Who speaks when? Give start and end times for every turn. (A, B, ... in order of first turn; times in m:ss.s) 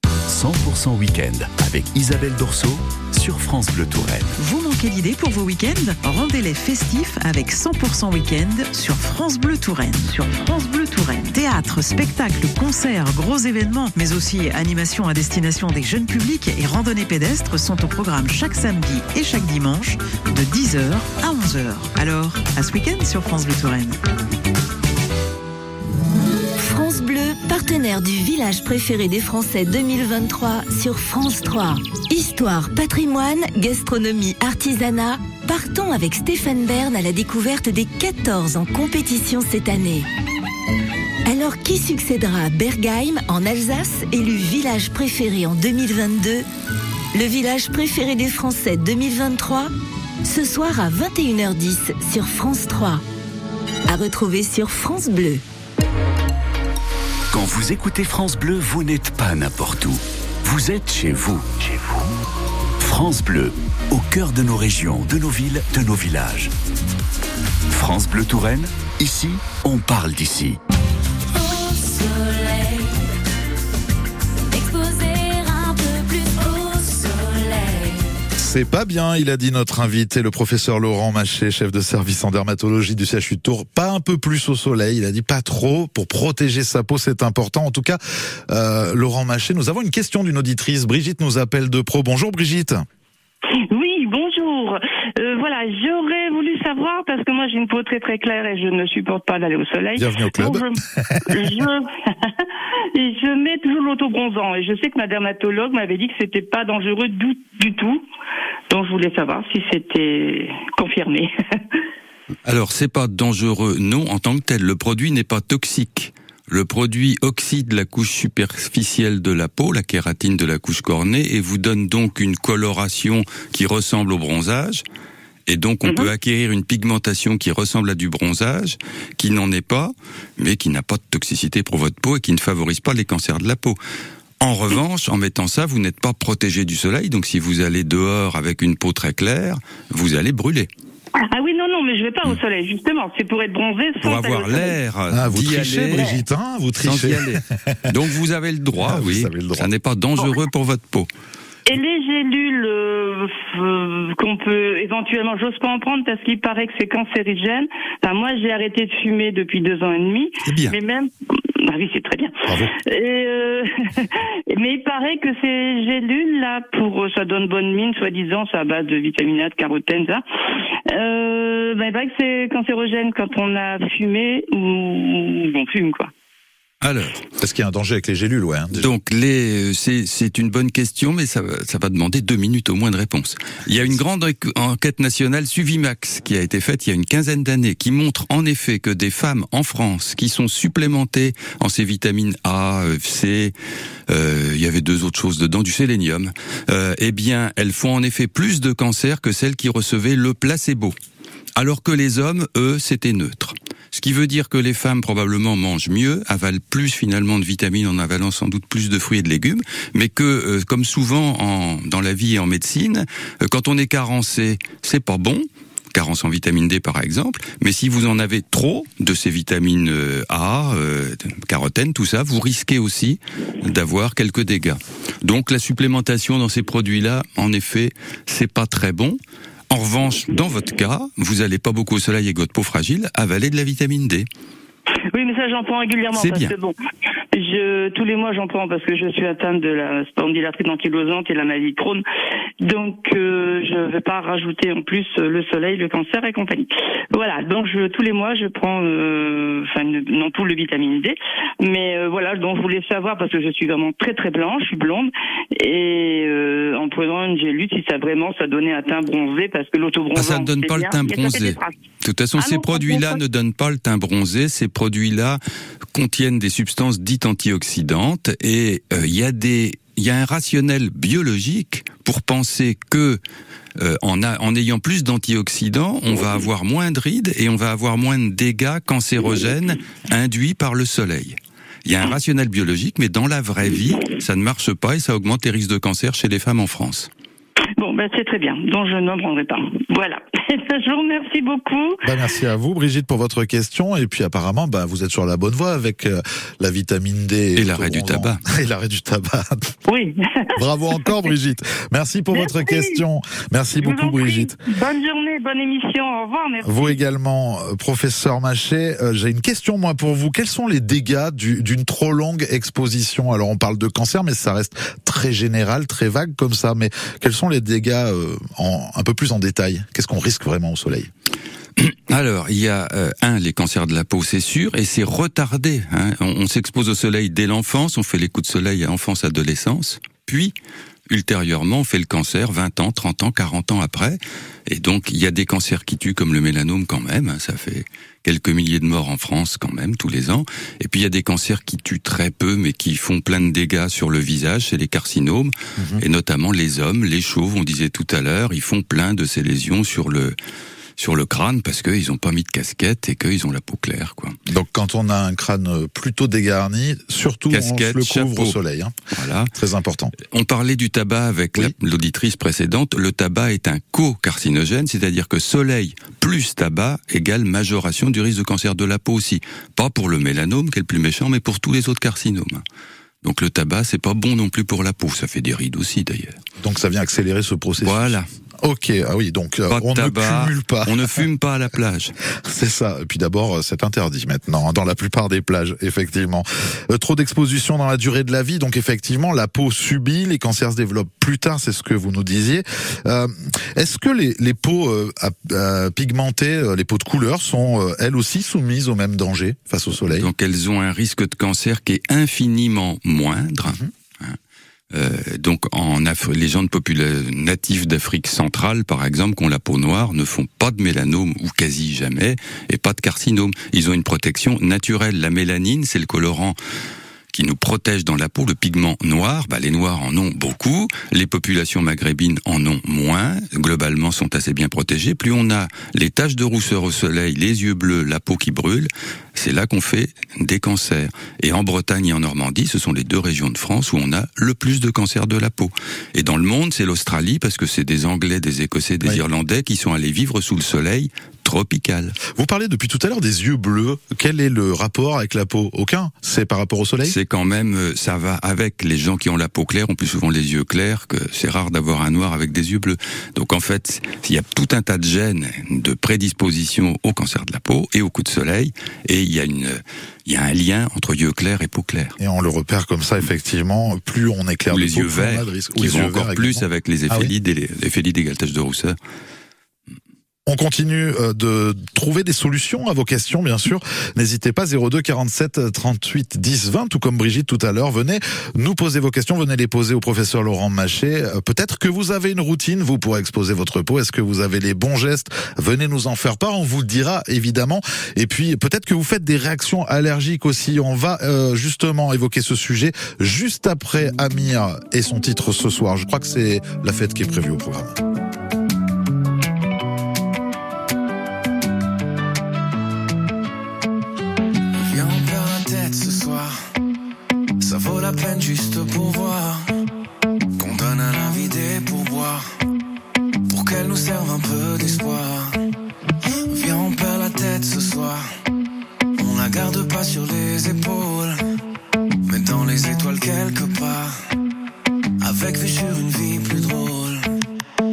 0:00.3-0:04.4 A
0:04.4-0:24.0 B
0:26.6-0:40.1 C
0:41.2-0:46.4 C
0:47.1-0:49.7 C
0:50.2-0:53.0 C
0:53.9-0:55.4 C
0:57.3-1:02.1 A
1:02.8-1:06.5 A
1:07.7-1:10.6 A
1:11.3-1:13.1 C
1:14.5-1:18.1 C
1:18.4-1:32.8 D
1:33.7-1:48.0 E
1:40.0-1:41.7 D
1:48.7-1:51.3 E
1:52.4-2:04.8 F
2:05.5-2:13.8 F
2:14.4-2:20.7 F
2:21.3-2:24.7 E
2:24.0-2:26.2 F
2:25.1-2:28.0 D
2:26.8-2:31.1 F
2:28.8-2:29.7 D
2:31.7-2:50.2 E
2:40.5-2:40.7 D
2:42.5-2:42.7 D
2:50.9-2:56.1 E
2:56.8-2:57.2 F
2:57.4-2:58.9 D
2:58.7-3:13.5 F
3:14.1-3:20.9 F
3:21.6-3:49.2 F
3:49.7-3:54.3 F
3:55.1-3:56.8 E
3:56.1-3:56.5 F
3:57.3-4:02.0 E
4:02.6-4:21.7 E
4:20.1-4:25.4 F
4:22.4-4:23.2 E
4:25.9-4:33.2 F
4:33.8-4:47.1 F
4:47.8-4:52.0 E
4:52.0-4:59.8 D
4:57.6-4:58.4 F
4:59.9-5:01.2 E
5:00.5-5:04.6 D
5:02.3-5:03.0 E
5:03.8-5:07.0 E
5:06.6-5:21.1 D
5:21.8-5:30.5 F
5:31.1-5:50.4 F
5:45.8-5:46.0 D
5:51.0-5:54.4 F
5:54.5-5:58.9 D
5:57.5-5:58.6 F
5:59.1-5:59.5 F
5:59.5-6:00.1 D
6:00.2-6:12.6 F
6:13.2-6:16.4 F
6:16.6-6:21.2 D
6:17.8-6:18.3 F
6:19.7-6:22.1 F
6:22.4-6:40.3 D
6:40.1-6:44.4 F
6:44.9-6:56.6 F
6:57.3-7:22.2 F
7:22.3-7:27.1 D
7:27.0-7:42.2 F
7:42.2-7:47.3 D
7:44.7-7:49.0 F
7:50.5-8:17.9 D
8:24.7-8:26.6 G
8:27.6-8:29.7 G
8:30.6-8:32.4 G
8:33.5-8:35.6 G
8:36.5-8:38.3 G
8:39.2-8:41.4 G
8:42.2-8:44.2 G
8:45.2-8:47.3 G